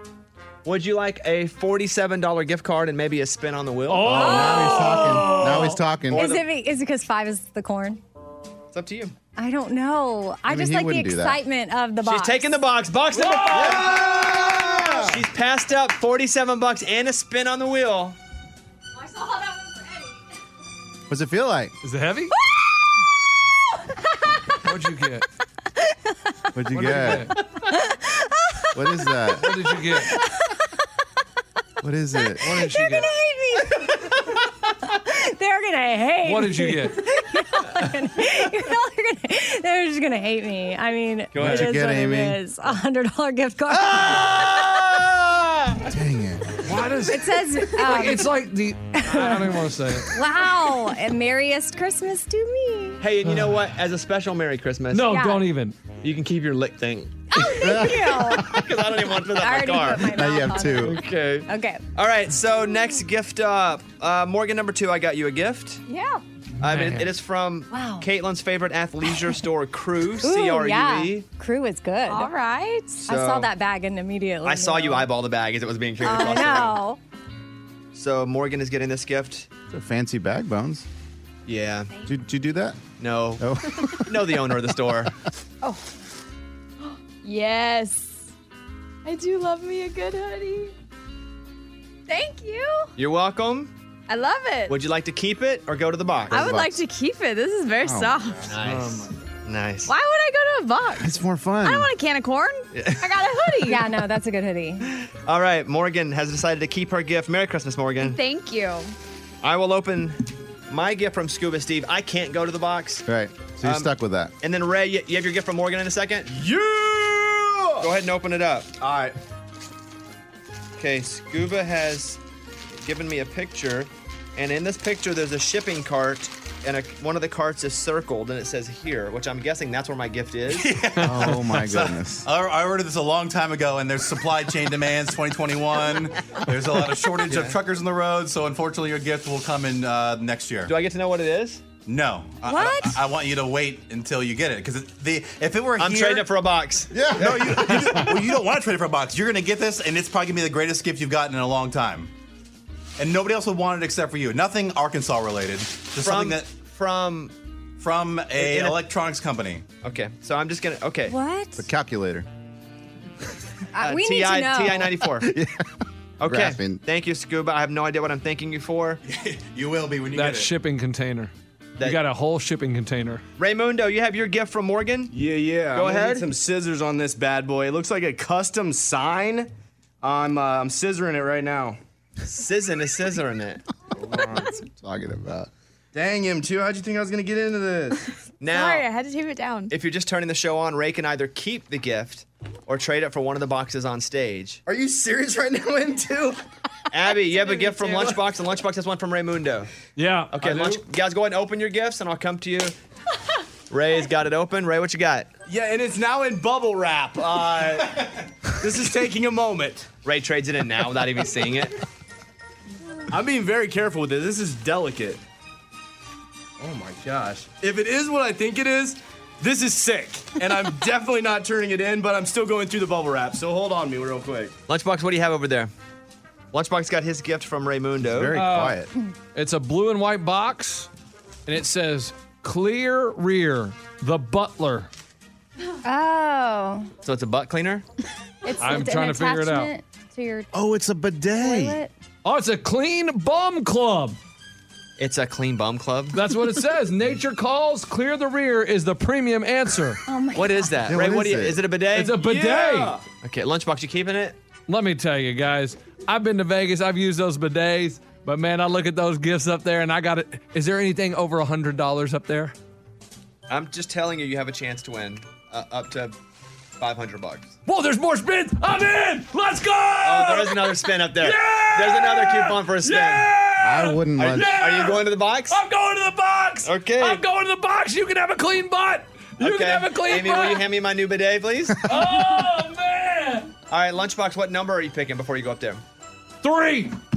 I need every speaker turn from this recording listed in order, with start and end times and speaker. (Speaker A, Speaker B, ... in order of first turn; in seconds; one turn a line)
Speaker A: 0.6-4.4
Speaker B: 3.9-5.8
Speaker C: 4.0-6.2
Speaker D: 4.2-5.2
Speaker A: 6.1-6.5
Speaker D: 6.1-8.0
Speaker A: 8.7-9.1
Speaker D: 9.3-12.6
Speaker C: 10.5-11.4
Speaker A: 12.0-14.1
Speaker B: 13.1-14.3
Speaker C: 13.8-15.2
Speaker A: 14.8-18.2
Speaker D: 19.1-19.7
Speaker C: 21.1-21.7
Speaker B: 21.8-22.3
Speaker B: 24.6-25.2
Speaker C: 26.5-27.3
Speaker B: 26.7-27.3
Speaker D: 27.6-30.6
Speaker C: 28.7-29.5
Speaker B: 29.4-30.1
Speaker C: 31.8-32.5
Speaker D: 32.2-34.2
Speaker B: 32.4-33.1
Speaker D: 34.8-44.8
Speaker B: 36.2-37.0
Speaker A: 41.3-41.7
Speaker C: 41.4-42.4
Speaker A: 43.9-45.8
Speaker C: 45.8-46.6
Speaker B: 46.6-50.1
Speaker D: 47.1-48.3
Speaker D: 48.9-49.5
Speaker D: 50.1-53.0
Speaker A: 53.0-55.2
Speaker B: 54.9-55.8
Speaker D: 55.1-55.5
Speaker A: 56.0-57.2
Speaker D: 57.3-58.5
Speaker C: 57.6-58.4
Speaker A: 58.2-60.1
Speaker D: 59.4-61.8
Speaker C: 60.0-61.0
Speaker A: 60.8-65.8
Speaker E: 65.9-66.2
Speaker A: 66.6-71.2
Speaker B: 66.6-67.1
Speaker D: 67.7-68.0
Speaker D: 70.2-72.3
Speaker E: 72.1-73.0
Speaker D: 73.0-75.1
Speaker A: 73.0-73.5
Speaker A: 74.4-76.8
Speaker D: 76.0-77.0
Speaker A: 77.9-79.5
Speaker C: 79.7-80.8
Speaker A: 81.5-81.9
Speaker C: 82.0-82.8
Speaker A: 83.0-85.1
Speaker C: 83.4-84.3
Speaker E: 85.6-85.9
Speaker E: 86.9-88.2
Speaker E: 89.0-90.7
Speaker E: 92.1-92.9
Speaker A: 93.0-93.7
Speaker E: 94.1-94.8
Speaker A: 94.7-96.4
Speaker C: 96.3-96.8
Speaker E: 96.3-98.5
Speaker C: 97.8-98.2
Speaker A: 98.5-99.9
Speaker B: 98.6-99.1
Speaker E: 99.9-103.8
Speaker C: 101.0-101.9
Speaker A: 102.7-103.1
Speaker D: 103.7-104.9
Speaker A: 105.0-108.2
Speaker E: 108.0-108.9
Speaker A: 109.4-113.0
Speaker C: 113.1-114.3
Speaker A: 113.6-116.3
Speaker F: 116.3-117.9
Speaker A: 117.8-118.7
Speaker F: 118.8-119.2
Speaker A: 120.8-122.2
Speaker A: 122.8-130.7
Speaker G: 130.5-140.7
Speaker C: 131.0-132.2
Speaker A: 137.3-137.6
Speaker A: 140.7-141.6
Speaker G: 141.8-146.3
Speaker D: 142.5-142.9
Speaker A: 145.8-146.9
Speaker C: 146.9-148.3
Speaker G: 147.2-152.1
Speaker G: 153.0-156.4
Speaker A: 156.0-157.3
Speaker G: 157.8-159.6
Speaker A: 158.3-158.8
Speaker A: 159.8-161.1
Speaker D: 161.1-161.7
Speaker C: 161.6-162.2
Speaker D: 163.7-164.9
Speaker A: 163.8-165.3
Speaker C: 165.2-165.6
Speaker A: 166.2-169.0
Speaker C: 166.2-166.8
Speaker G: 169.0-170.5
Speaker B: 170.1-173.2
Speaker A: 173.4-175.1
Speaker F: 175.1-179.5
Speaker A: 175.7-176.3
Speaker F: 180.0-181.8
Speaker A: 182.2-183.6
Speaker F: 184.0-184.5
Speaker C: 184.0-185.5
Speaker F: 185.9-188.0
Speaker A: 188.4-188.9
Speaker E: 188.5-189.7
Speaker A: 189.7-194.6
Speaker F: 194.7-196.4
Speaker A: 196.9-199.7
Speaker B: 197.7-198.2
Speaker B: 199.9-200.8
Speaker A: 200.3-202.7
Speaker A: 203.7-205.3
Speaker F: 205.4-208.0
Speaker F: 208.6-209.9
Speaker A: 210.0-211.8
Speaker F: 213.1-215.2
Speaker F: 216.6-224.5
Speaker A: 224.7-225.7
Speaker A: 226.5-228.4
Speaker C: 228.0-228.9
Speaker B: 228.3-228.8
Speaker B: 229.3-230.9
Speaker B: 231.4-234.9
Speaker D: 235.8-236.9
Speaker A: 237.0-237.8
Speaker D: 238.4-240.5
Speaker B: 238.6-239.7
Speaker C: 240.5-241.8
Speaker D: 241.4-241.9
Speaker B: 242.2-244.2
Speaker A: 245.0-246.2
Speaker B: 246.1-250.0
Speaker D: 250.1-250.7
Speaker A: 250.3-252.3
Speaker C: 250.8-251.6
Speaker B: 251.9-253.0
Speaker F: 252.2-253.0
Speaker A: 253.2-254.4
Speaker B: 254.7-262.5
Speaker A: 263.5-266.1
Speaker A: 266.8-267.5
Speaker B: 267.6-280.7
Speaker A: 270.0-273.3
Speaker C: 273.6-274.6
Speaker A: 274.2-275.6
Speaker A: 276.6-277.2
Speaker A: 279.4-282.0
Speaker B: 281.8-283.5
Speaker A: 283.7-285.8
Speaker B: 286.4-286.9